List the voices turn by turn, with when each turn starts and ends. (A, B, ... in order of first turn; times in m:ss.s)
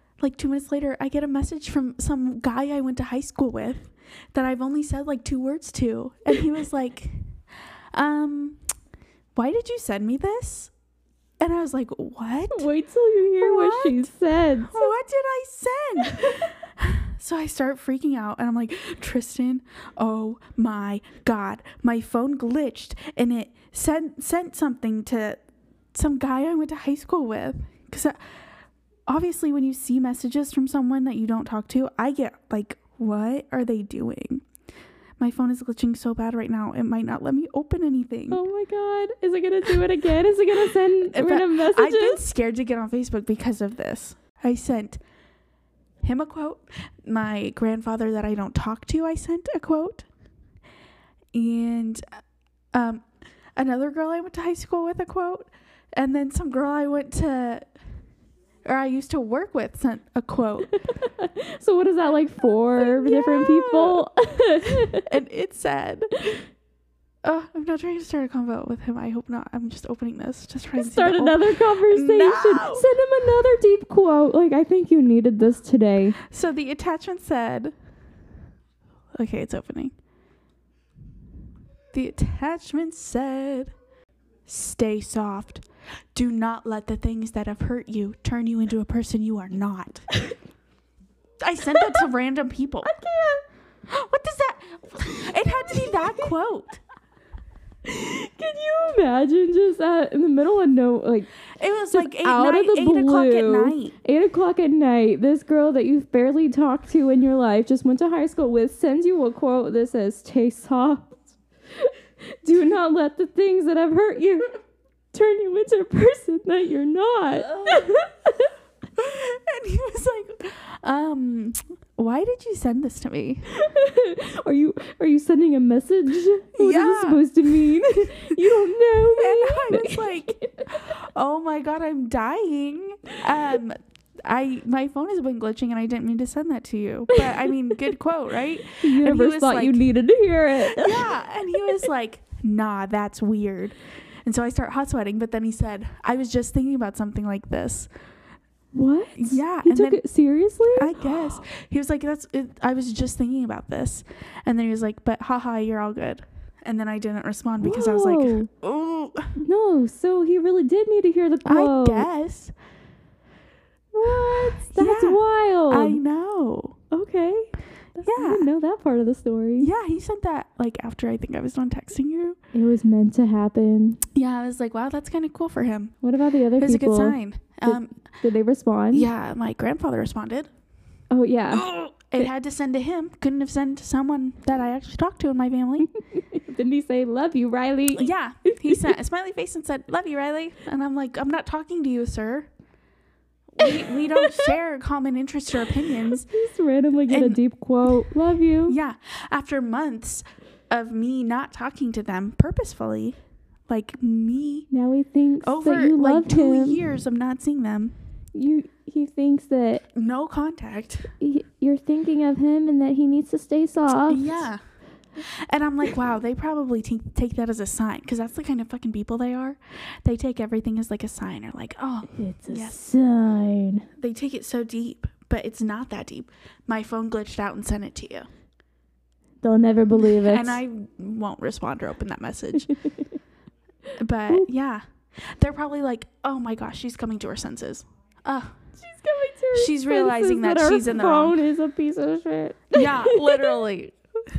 0:00.2-0:07.3 A
0:07.9-0:08.6 A
0:09.4-0:10.7 A
0:11.4-0:12.7 A
0:12.5-0:14.9 B
0:13.4-0:14.1 A
0:14.6-0:25.4 A
0:16.0-0:16.4 B
0:25.9-0:28.2 A
0:29.1-0:34.4 A
0:35.2-0:38.4 A
0:38.3-0:42.2 B
0:41.1-0:45.0 A
0:46.0-0:50.1 A
0:51.3-0:52.0 A
0:52.7-0:57.7 A
0:58.6-1:00.7 A
1:00.7-1:05.1 B
1:02.8-1:04.0 A
1:04.6-1:06.4 A
1:07.2-1:12.9 A
1:10.8-1:16.2 B
1:16.2-1:17.7 A
1:19.1-1:19.9 A
1:21.9-1:23.7 A
1:24.4-1:25.6 A
1:26.1-1:30.1 A
1:31.4-1:32.9 A
1:31.7-1:32.0 B
1:32.8-1:33.4 B
1:33.8-1:36.8 A
1:35.4-1:36.3 B
1:37.8-1:41.3 B
1:41.5-1:43.9 A
1:41.9-1:54.5 B
1:55.1-1:58.5 B
1:57.6-1:57.9 A
1:59.0-2:03.5 A
2:03.5-2:10.9 B
2:06.6-2:19.8 A
2:17.1-2:17.5 B
2:18.8-2:21.8 B
2:20.6-2:27.9 A
2:28.7-2:31.4 B
2:29.2-2:30.0 A
2:30.7-2:39.4 A
2:37.6-2:38.5 B
2:39.4-2:42.1 B
2:41.4-2:42.5 A
2:43.9-2:46.0 B
2:44.6-2:46.8 A
2:46.9-2:49.7 B
2:48.0-2:48.5 A
2:49.6-2:52.4 A
2:52.5-2:54.0 B
2:54.1-2:56.0 A
2:56.0-2:59.1 B
2:56.6-2:58.0 A
2:58.9-3:00.5 A
3:01.1-3:01.7 B
3:01.5-3:05.9 A
3:05.8-3:08.9 B
3:07.9-3:12.5 A
3:13.5-3:16.3 A
3:13.6-3:14.5 B
3:15.7-3:18.8 B
3:17.1-3:17.4 A
3:18.6-3:24.7 A
3:24.7-3:26.8 B
3:25.4-3:27.9 A
3:28.3-3:29.8 B
3:29.9-3:31.1 A
3:31.2-3:34.5 B
3:34.1-3:34.6 A
3:35.2-3:42.8 A
3:42.1-3:43.9 B
3:44.0-3:48.3 A
3:49.4-3:50.6 B
3:50.0-3:52.7 A
3:52.6-3:53.2 B
3:54.0-3:58.6 A
3:58.8-4:03.6 B
3:59.5-4:01.4 A
4:02.7-4:04.0 A